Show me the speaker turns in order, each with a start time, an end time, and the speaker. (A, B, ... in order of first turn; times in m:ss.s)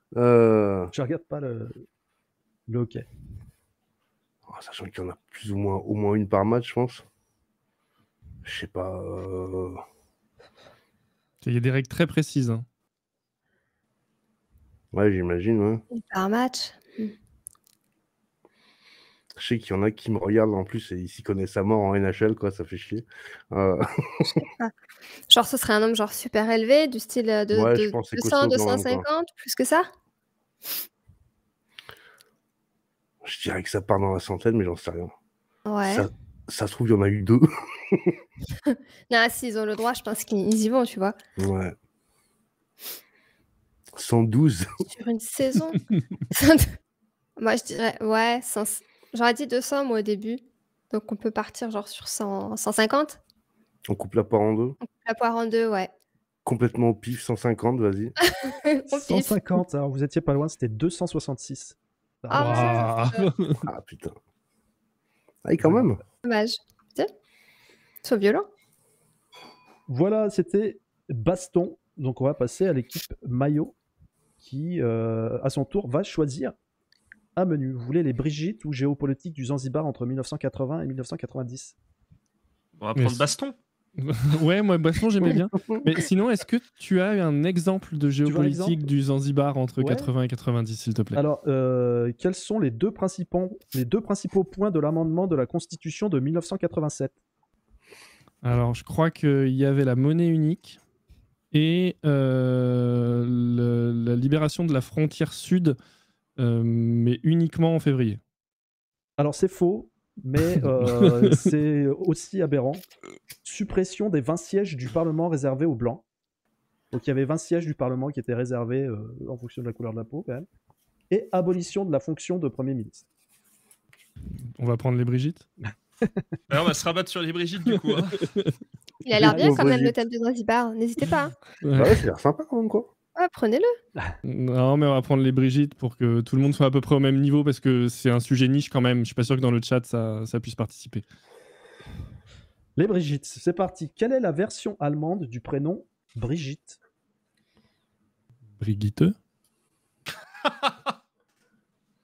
0:00.1-0:00.9 A
0:00.9-0:01.8 B
0:02.7-0:03.0 B
0:04.5-0:07.0 A
0:08.4-0:09.8 A
0:11.4-0:12.6 C
0:14.9-0:15.8 A
0:15.9-0:17.1 D
0:19.4-0:24.4 A
0:24.4-0:24.7 D
0:25.3-0:29.9 D
0:27.5-0:29.0 A
0:33.2-0:35.1 A
0:35.7-0:36.1 D
0:35.8-0:38.2 A
0:38.7-0:41.2 D
0:41.4-0:41.7 A
0:43.9-0:44.7 A
0:44.9-0:45.8 D
0:46.3-0:46.7 D
0:47.4-0:50.4 D
0:50.9-0:53.2 D
0:53.9-0:54.8 A
0:54.8-0:55.9 D
0:56.4-0:58.1 A
0:58.3-0:59.4 D
0:58.9-1:02.9 B
1:02.3-1:03.2 D
1:02.3-1:03.6 C
1:03.6-1:04.2 A
1:05.4-1:06.0 A
1:05.6-1:06.0 B
1:06.2-1:07.1 D
1:08.0-1:08.4 D
1:09.9-1:13.7 B
1:14.4-1:16.5 B
1:17.4-1:21.7 B
1:22.8-1:23.5 E
1:23.0-1:23.3 C
1:24.0-1:31.2 C
1:25.2-1:25.9 A
1:28.2-1:28.9 B
1:29.8-1:30.1 B
1:31.1-1:37.2 B
1:38.4-1:40.8 C
1:41.5-1:45.8 C
1:46.4-1:48.2 C
1:49.2-1:52.8 B
1:50.5-1:51.3 C
1:53.4-1:56.0 B
1:56.9-2:00.5 B
2:01.1-2:03.0 B
2:04.6-2:05.5 C
2:06.5-2:08.2 E
2:07.9-2:08.6 C
2:09.0-2:11.3 D
2:09.1-2:09.9 A
2:09.2-2:09.5 B
2:11.6-2:12.0 C
2:11.7-2:12.9 A
2:13.2-2:13.7 D
2:14.2-2:21.0 C
2:22.8-2:26.8 B
2:28.6-2:29.2 C
2:30.4-2:30.8 E